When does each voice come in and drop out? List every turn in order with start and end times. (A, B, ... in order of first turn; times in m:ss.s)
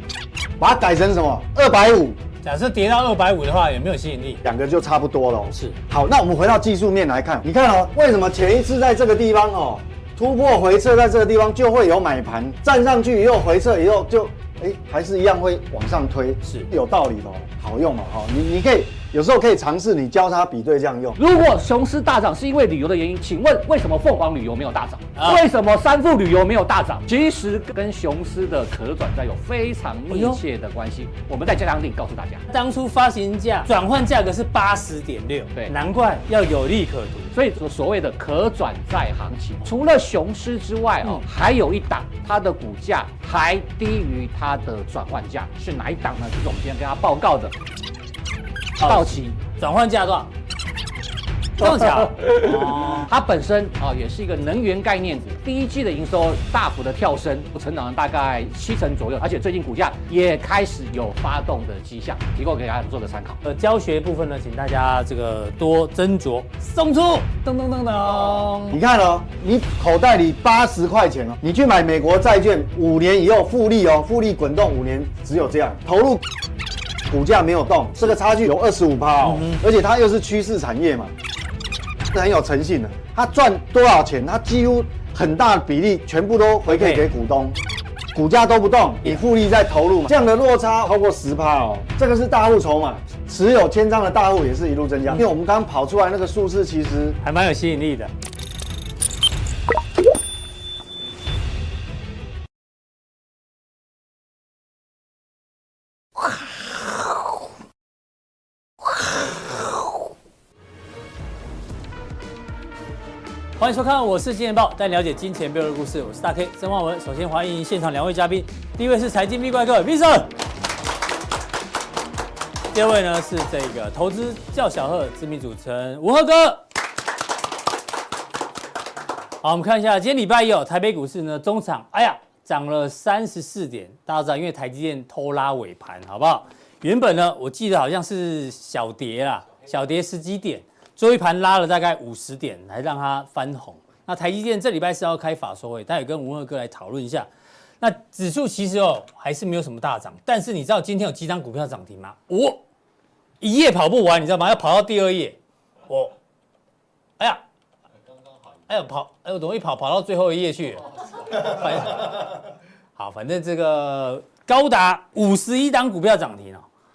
0:00.6-0:02.2 A
0:02.4-0:04.4 B
0:04.4-0:21.2 A
0:16.4-0:16.7 B
0:21.2-0:32.5 C
0:25.2-0:25.4 B
0:30.1-0:30.4 B
0:32.5-0:37.3 B
0:37.3-0:47.5 C
0:48.8-0:49.4 C
0:48.8-0:50.3 B
0:51.6-0:53.1 B
0:51.6-1:03.4 C
1:03.4-1:08.8 B
1:08.7-1:16.2 A
1:17.1-1:21.1 A
1:19.2-1:19.6 B
1:22.1-1:27.6 A
1:26.7-1:27.0 B
1:28.1-1:37.2 A
1:37.2-1:38.1 B
1:53.6-2:00.4 B
2:02.7-2:06.6 B
2:09.4-2:27.3 B
2:27.8-2:32.6 B
2:33.4-2:36.2 B
2:38.7-2:42.4 B
2:43.0-2:46.7 B